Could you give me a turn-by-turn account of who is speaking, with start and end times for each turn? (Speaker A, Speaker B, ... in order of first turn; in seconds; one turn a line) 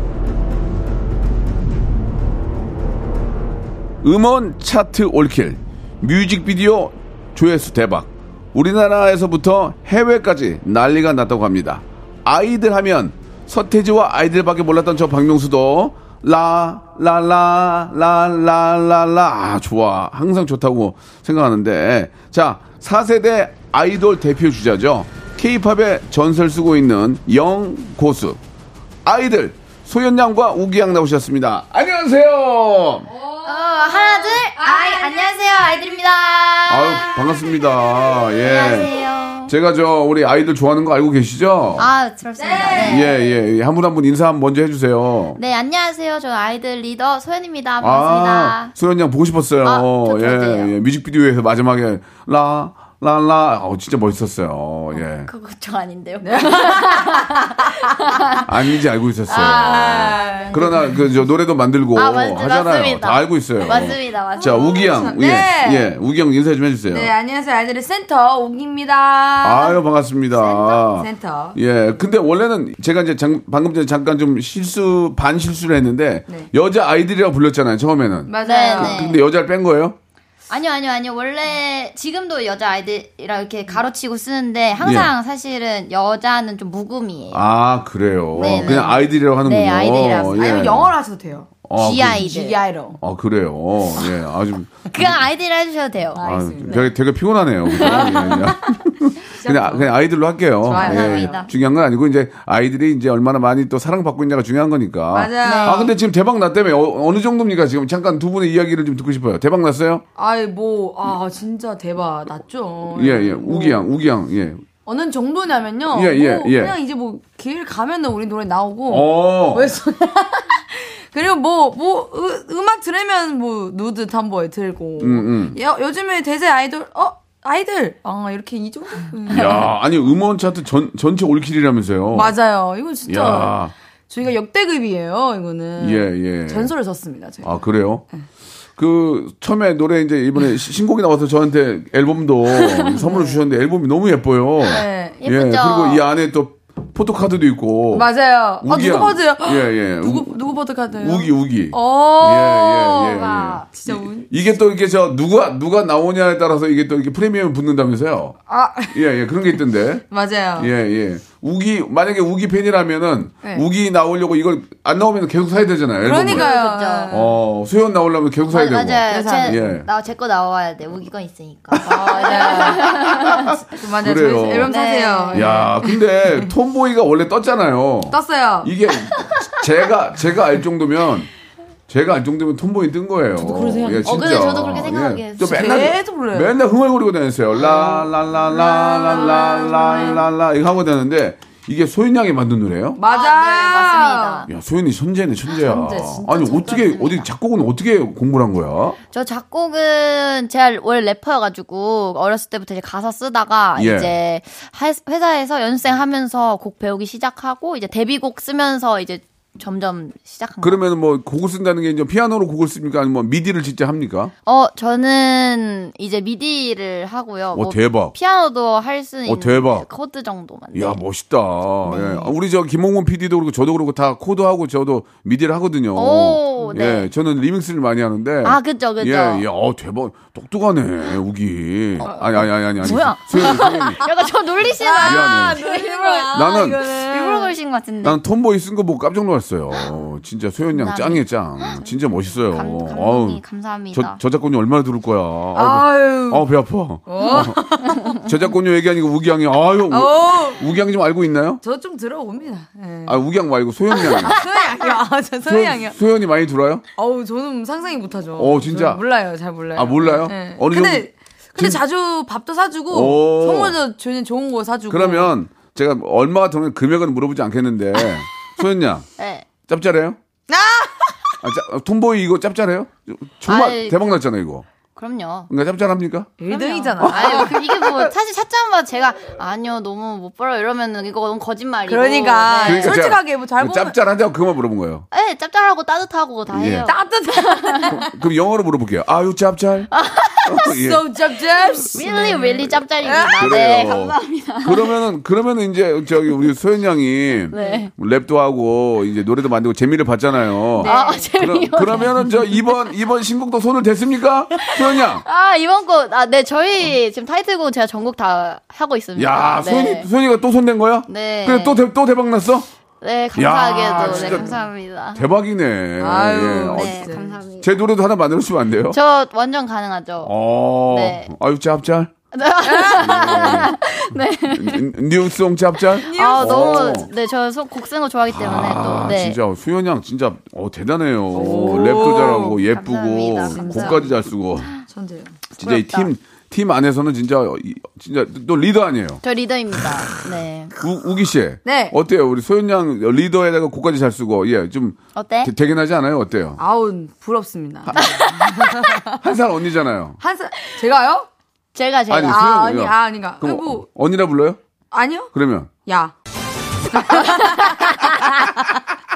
Speaker A: 4.0-28.4
Speaker A: 29.1-33.1
Speaker B: 33.1-35.3
Speaker C: 33.4-37.1
Speaker A: 36.7-38.9
Speaker C: 38.3-39.5
Speaker A: 39.5-41.9
Speaker C: 41.8-43.2
Speaker B: 42.4-43.2
Speaker A: 42.8-45.4
Speaker C: 45.4-48.7
Speaker A: 47.8-55.3
Speaker C: 49.6-50.7
Speaker C: 55.2-58.5
Speaker B: 56.2-57.4
Speaker A: 58.5-67.1
Speaker C: 59.3-60.9
Speaker B: 59.3-61.1
Speaker C: 62.0-64.7
Speaker B: 64.4-65.9
Speaker B: 66.9-69.8
Speaker A: 69.4-80.0
Speaker C: 70.4-70.8
Speaker B: 70.8-71.6
Speaker B: 78.3-79.0
Speaker C: 78.4-79.2
Speaker C: 80.5-87.4
Speaker A: 84.8-85.1
Speaker A: 87.3-90.9
Speaker B: 88.4-89.0
Speaker C: 88.4-90.7
Speaker B: 90.1-91.6
Speaker A: 91.7-92.3
Speaker C: 91.8-92.6
Speaker B: 92.1-93.0
Speaker A: 93.0-95.2
Speaker C: 94.9-96.9
Speaker B: 96.2-96.8
Speaker A: 96.2-110.0
Speaker B: 97.8-98.5
Speaker C: 97.8-98.2
Speaker B: 99.4-99.9
Speaker B: 100.6-101.4
Speaker C: 100.7-101.5
Speaker B: 105.1-105.9
Speaker C: 105.4-105.9
Speaker B: 110.2-113.9
Speaker A: 112.9-114.7
Speaker B: 114.8-129.7
Speaker A: 115.9-116.8
Speaker A: 118.9-119.7
Speaker A: 125.0-125.6
Speaker A: 129.3-132.4
Speaker B: 132.1-133.6
Speaker A: 133.1-133.7
Speaker B: 134.1-137.6
Speaker A: 135.8-136.7
Speaker A: 137.4-138.0
Speaker A: 138.8-150.4
Speaker B: 143.0-143.2
Speaker B: 144.6-145.2
Speaker C: 144.7-146.0
Speaker B: 147.9-154.3
Speaker A: 151.0-158.4
Speaker C: 153.1-153.7
Speaker B: 158.5-159.0
Speaker A: 158.9-160.1
Speaker B: 160.1-160.7
Speaker A: 160.6-166.5
Speaker B: 166.0-167.4
Speaker C: 166.3-167.2
Speaker A: 167.1-169.9
Speaker C: 168.5-173.5
Speaker B: 169.1-169.8
Speaker B: 171.8-176.4
Speaker A: 172.8-174.7
Speaker C: 174.7-175.5
Speaker A: 175.3-181.3
Speaker B: 178.1-178.7
Speaker A: 181.9-193.0
Speaker B: 183.4-184.7
Speaker C: 184.0-185.9
Speaker B: 185.4-186.6
Speaker B: 187.5-190.2
Speaker C: 189.1-190.2
Speaker B: 192.9-194.5
Speaker C: 193.1-194.5
Speaker A: 194.5-199.0
Speaker B: 195.6-196.7
Speaker C: 196.2-197.3
Speaker C: 199.1-210.8
Speaker A: 203.8-204.1
Speaker A: 210.6-214.3
Speaker C: 214.5-221.0
Speaker A: 217.5-218.1
Speaker A: 219.3-219.9
Speaker A: 220.7-234.0
Speaker B: 221.9-222.3
Speaker C: 221.9-222.3
Speaker C: 225.9-227.1
Speaker C: 228.4-229.5
Speaker B: 232.0-233.6
Speaker C: 232.8-238.2
Speaker B: 234.8-237.6
Speaker A: 235.0-235.6
Speaker A: 236.3-236.8
Speaker A: 238.0-251.6
Speaker C: 240.7-241.8
Speaker C: 242.5-244.2
Speaker B: 245.5-246.5
Speaker B: 247.1-248.2
Speaker B: 249.9-250.7
Speaker B: 251.6-253.2
Speaker A: 253.1-254.4
Speaker B: 254.0-256.0
Speaker A: 255.4-256.8
Speaker B: 257.0-265.3
Speaker A: 258.4-259.0
Speaker A: 259.8-261.8
Speaker A: 262.9-263.8
Speaker A: 264.9-269.1
Speaker C: 269.2-269.5
Speaker A: 269.7-270.2
Speaker B: 270.5-271.3
Speaker A: 271.4-274.6
Speaker C: 273.5-274.0
Speaker C: 275.0-275.5
Speaker A: 275.5-276.4
Speaker B: 276.4-278.1
Speaker C: 276.5-283.0
Speaker A: 277.0-277.6
Speaker B: 281.9-283.9
Speaker A: 282.6-285.1
Speaker C: 285.1-287.0
Speaker A: 286.5-286.9
Speaker B: 286.8-288.1
Speaker C: 287.6-287.9
Speaker A: 287.9-289.9
Speaker C: 289.9-290.7
Speaker A: 290.5-291.1
Speaker B: 290.7-294.1
Speaker C: 291.9-294.9
Speaker A: 293.3-305.2
Speaker C: 297.5-297.9
Speaker B: 297.5-297.9
Speaker B: 300.8-301.3
Speaker C: 300.8-302.8
Speaker C: 304.6-310.1
Speaker A: 309.2-312.7
Speaker C: 311.1-311.8
Speaker C: 313.0-315.2
Speaker A: 313.4-314.6
Speaker B: 314.0-314.6
Speaker A: 315.1-317.0
Speaker B: 316.0-317.5
Speaker C: 316.7-317.7
Speaker A: 317.6-319.0
Speaker C: 318.9-321.3
Speaker A: 320.2-322.1
Speaker C: 322.3-324.8
Speaker B: 322.6-323.7
Speaker A: 323.0-323.7
Speaker A: 324.5-327.1
Speaker B: 326.0-326.9
Speaker C: 326.0-329.4
Speaker A: 328.3-334.7
Speaker B: 331.3-332.6
Speaker C: 331.4-334.0
Speaker B: 333.5-334.2
Speaker B: 334.8-335.4
Speaker A: 335.6-339.2
Speaker C: 335.6-336.1
Speaker C: 339.2-340.7
Speaker A: 340.8-346.6
Speaker B: 341.6-342.0
Speaker C: 345.1-345.5
Speaker B: 346.6-349.2
Speaker A: 347.9-348.1
Speaker C: 347.9-348.8
Speaker A: 349.2-350.2
Speaker B: 350.2-351.3
Speaker C: 351.8-352.5
Speaker A: 352.1-354.6
Speaker B: 352.2-353.9
Speaker B: 354.9-355.3
Speaker A: 355.3-355.7
Speaker B: 355.9-356.1
Speaker B: 356.9-358.8
Speaker C: 357.1-358.4